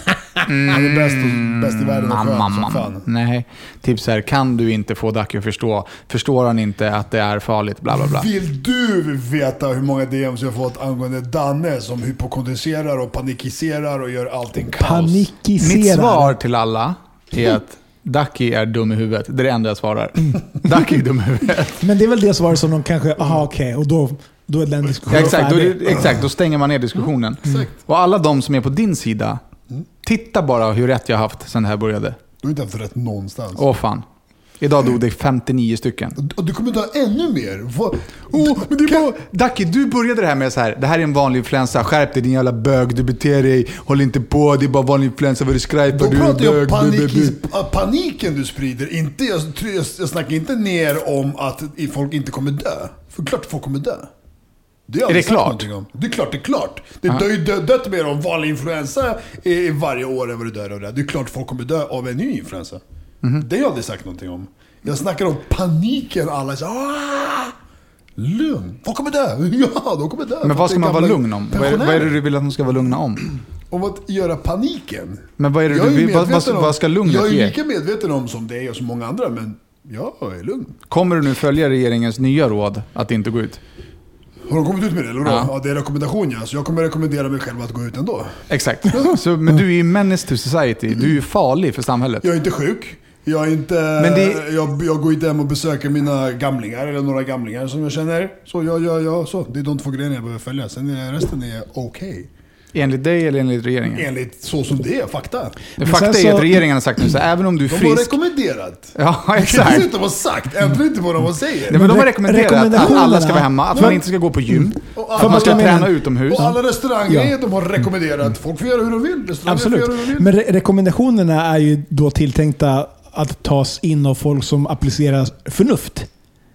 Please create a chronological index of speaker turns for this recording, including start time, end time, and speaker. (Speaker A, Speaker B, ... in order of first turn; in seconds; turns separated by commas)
Speaker A: 0.4-8.3, Speaker B: 0.7-3.0, Speaker B: 7.9-15.3, Speaker C: 14.8-16.4, Speaker A: 15.6-21.8, Speaker C: 21.8-26.1, Speaker B: 25.1-25.3, Speaker A: 25.1-29.4, Speaker B: 27.4-27.7, Speaker A: 30.0-32.2, Speaker B: 32.4-33.6, Speaker A: 33.5-34.0, Speaker A: 34.6-36.2, Speaker B: 36.2-39.1, Speaker A: 38.3-47.4, Speaker B: 45.9-54.1, Speaker B: 54.9-62.8, Speaker A: 55.1-55.7, Speaker B: 63.4-67.5, Speaker B: 68.2-72.2, Speaker A: 70.4-73.3, Speaker B: 73.7-80.8, Speaker A: 75.4-77.5, Speaker A: 80.9-83.6, Speaker B: 84.5-88.3, Speaker A: 85.2-85.5, Speaker A: 88.5-92.2, Speaker B: 92.2-102.3, Speaker A: 94.0-94.4, Speaker A: 102.7-104.0, Speaker B: 103.9-105.6, Speaker C: 105.8-106.7, Speaker A: 105.8-108.2, Speaker B: 107.6-111.8, Speaker A: 108.9-109.9, Speaker A: 111.7-116.5, Speaker C: 111.7-114.0, Speaker B: 113.8-114.0, Speaker B: 114.9-120.3, Speaker C: 115.1-117.3, Speaker C: 119.4-126.1